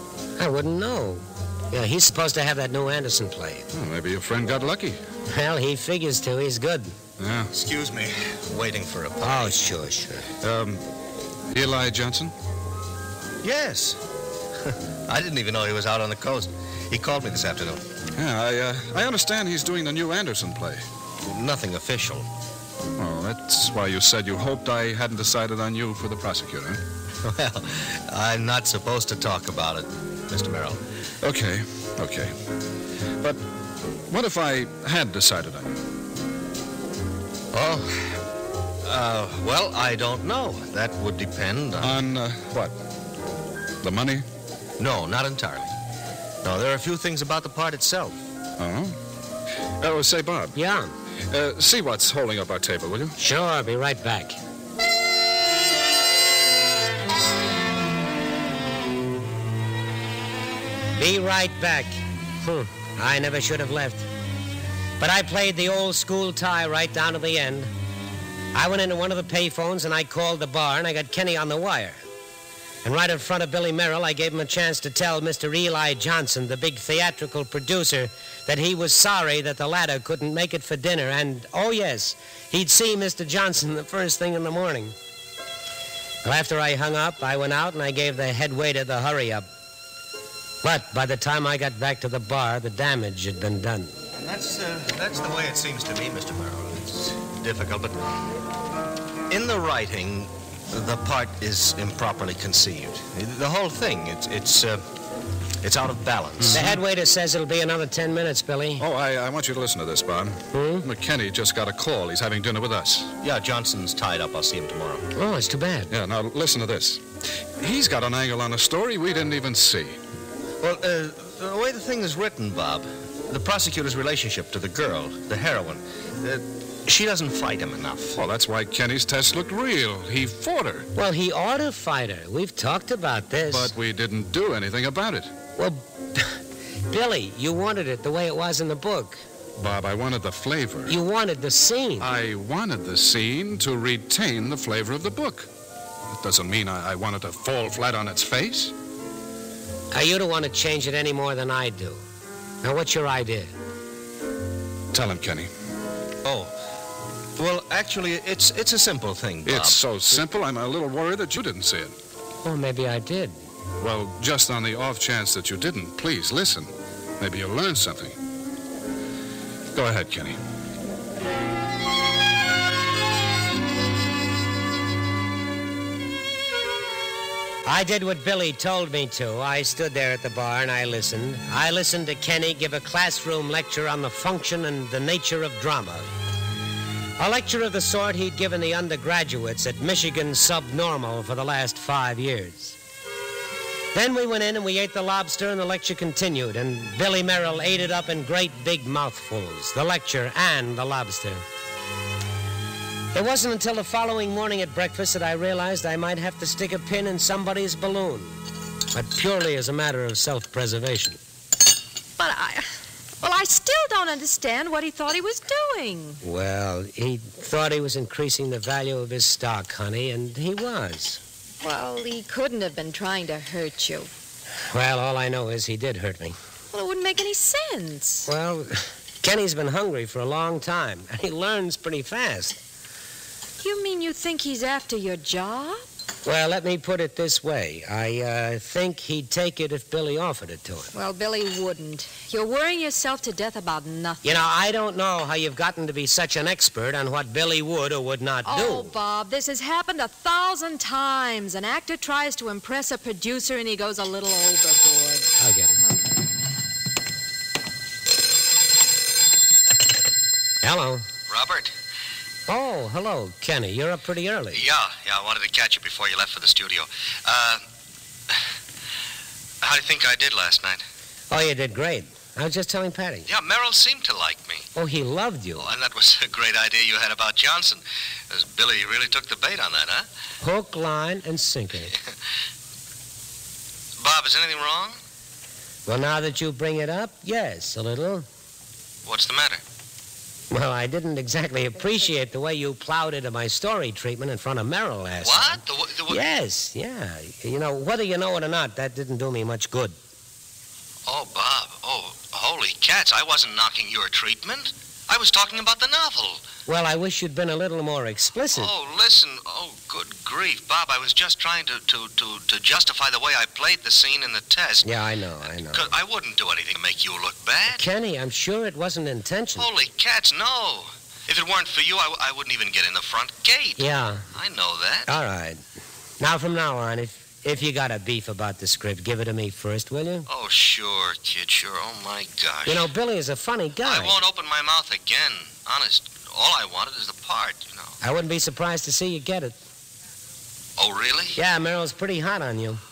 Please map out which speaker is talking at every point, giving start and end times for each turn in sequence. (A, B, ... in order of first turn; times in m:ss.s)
0:00.4-0:03.7 A
0:03.7-0:05.0 B
0:05.3-0:06.9 A
0:07.2-0:07.5 B
0:07.5-0:09.5 C
0:09.2-0:10.3 A
0:10.4-0:10.8 B
0:11.5-0:12.3 B
0:13.4-0:14.0 C
0:14.7-0:17.8 C
0:18.2-0:20.8 B
0:21.2-0:22.3 C
0:23.0-0:26.8 B
0:27.2-0:30.8 C
0:31.2-0:32.3 B
0:34.1-0:35.8 B
0:37.5-0:38.2 C
0:38.8-0:42.0 C
0:41.8-0:42.8 B
0:43.8-0:44.2 B
0:44.8-0:45.8 C
0:46.4-0:48.2 C
0:48.6-0:49.0 B
0:49.8-0:50.6 B
0:50.6-0:50.9 A
0:51.3-0:53.2 B
0:53.2-0:54.4 A
1:01.0-1:04.1 A
1:05.0-1:07.7 A
1:08.5-1:12.0 A
1:12.8-1:24.9 A
1:26.2-1:29.5 A
1:30.6-1:33.9 A
1:34.1-1:38.0 C
1:39.3-1:44.8 C
1:45.6-1:46.6 C
1:46.5-1:48.8 A
1:48.8-1:53.1 B
1:50.5-1:50.9 A
1:53.2-1:55.1 C
1:55.2-1:55.9 A
1:55.9-2:00.0 B
2:00.6-2:08.2 C
2:08.2-2:10.9 B
2:11.0-2:13.7 A
2:13.5-2:15.3 B
2:15.6-2:16.4 A
2:16.9-2:19.2 A
2:19.6-2:21.0 B
2:20.9-2:22.1 A
2:22.0-2:25.5 B
2:26.1-2:28.7 B
2:29.9-2:32.0 A
2:32.6-2:33.5 A
2:34.9-2:35.5 B
2:36.2-2:36.5 C
2:37.4-2:39.8 C
2:39.5-2:41.9 B
2:42.4-2:43.3 A
2:43.8-2:48.2 B
2:49.7-2:50.4 B
2:57.7-3:06.1 A
3:07.2-3:12.8 A
3:13.9-3:21.4 A
3:23.1-3:28.4 A
3:28.9-3:31.2 A
3:32.2-3:36.2 D
3:36.2-3:41.2 A
3:41.6-3:44.1 D
3:44.7-3:46.4 A
3:46.7-3:48.3 D
3:48.3-3:52.6 A
3:53.6-3:55.8 D
3:56.2-4:00.9 A
4:00.9-4:04.4 D
4:04.2-4:08.9 A
4:08.4-4:15.3 D
4:15.4-4:15.8 A
4:20.6-4:21.1 A
4:21.3-4:21.7 E
4:22.5-4:24.6 A
4:24.5-4:27.6 E
4:29.6-4:30.8 E
4:31.3-4:33.3 A
4:33.3-4:34.7 E
4:34.8-4:35.6 A
4:35.6-4:40.1 E
4:40.4-4:41.9 A
4:44.0-4:45.0 E
4:45.9-4:48.3 A
4:49.1-4:49.6 E
4:50.5-5:00.0 A
4:55.2-4:56.2 E
5:01.1-5:06.4 E
5:06.7-5:08.7 A
5:08.5-5:14.9 E
5:14.8-5:15.9 A
5:15.6-5:17.8 E
5:17.8-5:19.7 A
5:19.6-5:25.1 E
5:23.8-5:24.3 A
5:25.1-5:25.6 A
5:26.2-5:30.3 A
5:30.3-5:32.9 E
5:32.7-5:34.2 A
5:33.8-5:38.0 E
5:38.0-5:39.6 A
5:40.8-5:41.4 E
5:41.4-5:42.8 A